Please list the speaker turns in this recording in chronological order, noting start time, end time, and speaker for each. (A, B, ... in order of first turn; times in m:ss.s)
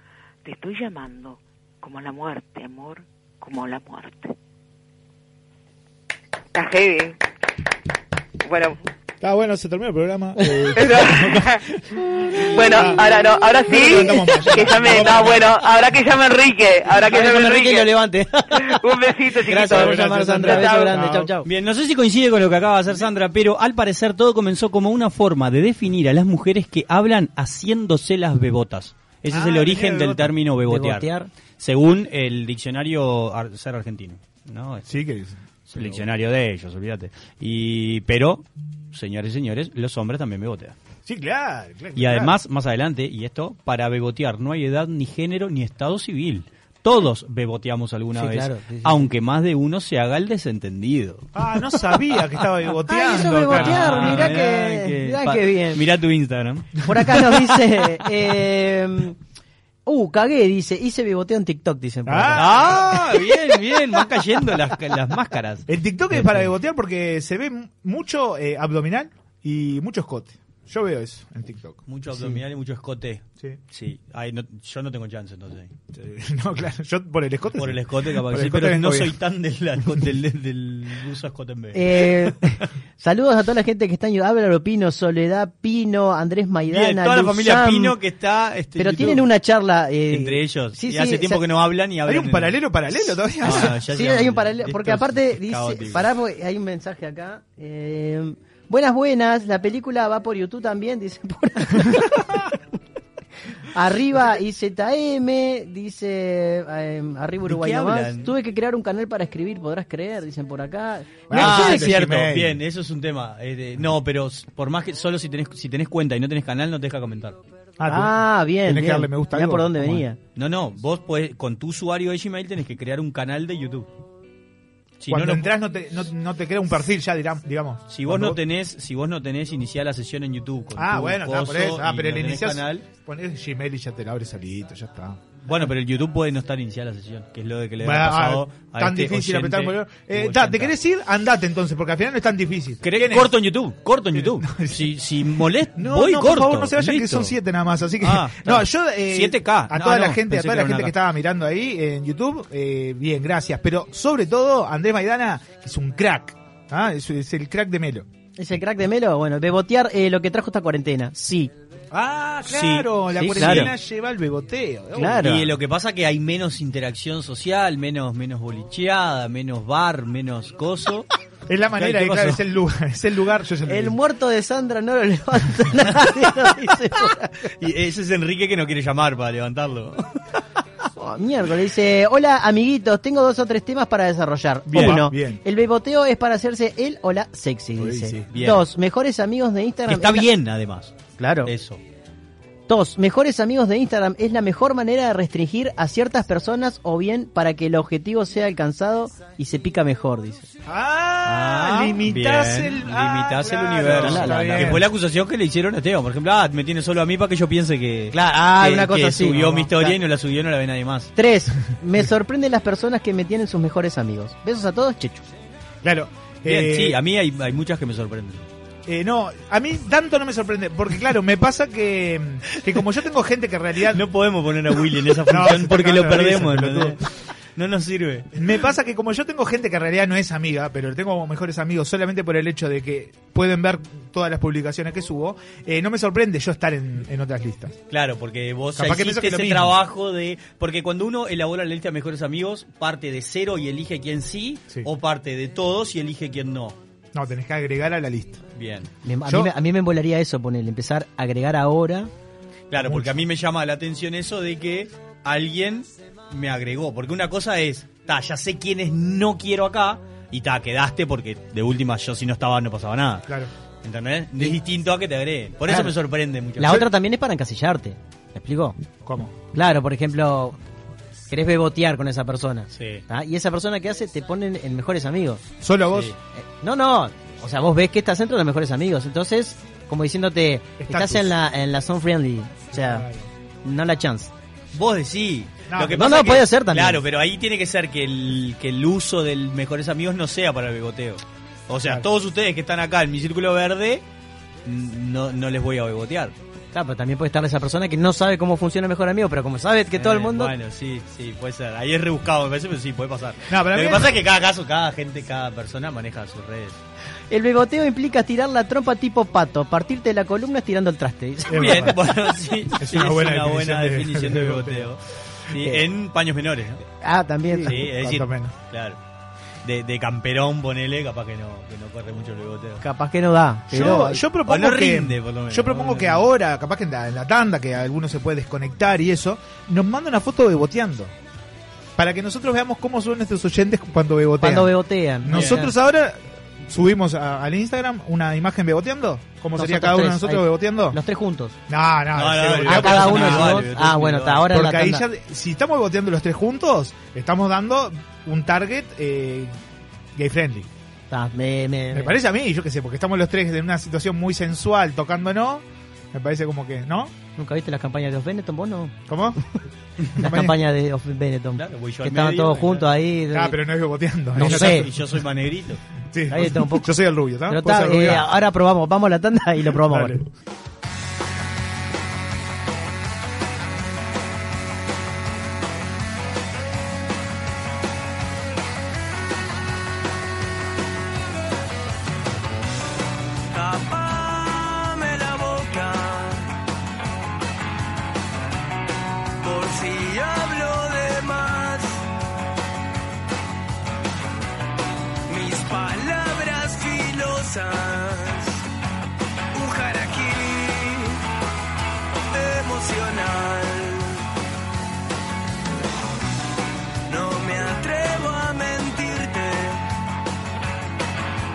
0:00.4-0:04.3 A
0:06.5-0:07.2 A
0:08.4-0:08.8 A
0:09.2-0:11.6 B
0:10.8-0:11.6 A
0:12.5-0:17.9 A
0:12.5-0:13.0 B
0:13.7-0:15.5 B
0:17.0-0:18.8 C
0:18.6-0:20.8 A
0:19.4-0:21.5 C
0:19.7-0:21.3 B
0:21.4-0:31.1 D
0:29.3-0:30.3 B
0:30.7-0:31.3 C
0:31.6-0:34.9 D
0:34.9-0:36.1 B
0:35.7-0:40.8 D
0:41.0-0:42.4 B
0:42.0-0:51.3 D
0:48.2-0:49.1 C
0:51.4-0:54.4 B
0:52.9-0:55.8 C
0:53.5-0:57.5 D
0:56.8-0:59.2 C
0:59.9-1:02.5 C
1:02.1-1:03.2 B
1:02.4-1:06.5 D
1:05.7-1:11.8 B
1:11.9-1:15.7 D
1:15.9-1:19.1 B
1:17.6-1:22.3 D
1:21.7-1:28.0 C
1:26.7-1:29.3 D
1:28.8-1:31.4 C
1:30.1-1:32.6 D
1:32.1-1:33.8 B
1:33.4-1:36.1 D
1:33.6-1:42.3 C
1:43.7-1:51.9 C
1:47.4-1:48.3 D
1:51.3-1:52.6 B
1:51.3-1:57.4 D
1:57.8-2:00.0 B
1:57.9-2:00.2 C
2:00.4-2:03.9 D
2:05.0-2:05.5 D
2:05.1-2:08.4 B
2:07.9-2:12.9 D
2:10.8-2:15.3 B
2:15.5-2:20.8 D
2:17.8-2:23.3 B
2:22.8-2:27.4 D
2:24.1-2:24.8 B
2:25.8-2:38.1 B
2:28.0-2:30.9 D
2:38.4-2:41.5 C
2:41.9-2:45.4 B
2:42.4-2:43.7 D
2:43.2-2:43.7 C
2:45.0-2:45.5 C
2:45.2-2:51.1 D
2:51.5-2:54.0 B
2:51.8-2:52.4 D
2:53.7-2:57.3 C
2:57.6-3:00.1 D
3:01.0-3:10.3 C
3:04.7-3:05.4 B
3:04.7-3:05.0 D
3:07.8-3:08.2 B
3:08.2-3:08.6 D
3:09.9-3:11.8 D
3:11.2-3:11.5 C
3:12.7-3:20.5 C
3:20.7-3:24.9 B
3:21.3-3:31.1 D
3:23.9-3:24.8 C
3:28.1-3:30.0 C
3:31.2-3:35.3 C
3:35.8-3:37.0 B
3:36.4-3:38.4 D
3:38.9-3:44.0 B
3:43.9-3:47.0 D
3:45.3-3:47.0 B
3:47.6-3:48.4 D
3:48.4-3:57.8 B
3:57.9-4:06.8 D
3:58.8-3:59.8 B
4:07.1-4:08.4 B
4:08.6-4:08.9 D
4:09.0-4:12.1 C
4:09.3-4:09.5 B
4:12.7-4:23.3 D
4:12.8-4:13.1 B
4:23.8-4:26.9 D
4:26.6-4:28.8 C
4:29.0-4:29.4 B
4:29.5-4:30.6 C
4:31.3-4:35.4 C
4:32.7-4:33.0 D
4:35.6-4:36.1 B
4:36.4-4:43.1 C
4:40.8-4:41.3 B
4:42.7-4:43.3 B
4:43.6-4:44.3 C
4:44.7-4:54.0 D
4:45.7-4:46.1 B
4:45.9-4:47.0 C
4:54.6-4:56.3 D
4:56.7-5:00.5 C
5:00.0-5:06.8 D
5:03.5-5:04.2 B
5:07.3-5:11.9 C
5:11.5-5:12.0 B
5:11.5-5:16.8 D
5:12.8-5:14.9 B
5:17.0-5:18.1 C
5:17.5-5:18.5 B
5:17.7-5:19.0 D
5:19.6-5:22.8 D
5:22.8-5:24.2 C
5:23.7-5:31.1 B
5:23.8-5:26.3 D
5:32.0-5:41.0 B
5:34.4-5:35.7 C
5:35.3-5:35.6 D
5:39.6-5:41.6 C
5:41.7-5:43.7 B
5:42.2-5:44.5 D
5:42.6-5:45.0 C
5:44.5-5:49.6 B
5:50.2-5:50.7 B
5:51.1-5:52.2 C
5:51.9-5:57.1 B
5:57.4-5:59.0 C
5:59.1-5:59.4 B
6:00.2-6:00.6 B
6:00.2-6:03.6 C
6:01.6-6:02.9 D
6:03.3-6:05.0 B
6:04.3-6:04.9 C
6:04.4-6:05.8 D
6:06.1-6:08.3 B
6:06.3-6:06.9 C
6:07.5-6:10.2 C
6:09.9-6:10.3 B
6:23.5-6:26.5 E
6:29.4-6:32.1 E
6:35.3-6:38.7 E
6:39.5-6:41.2 E
6:42.3-6:44.2 E
6:47.1-6:49.9 E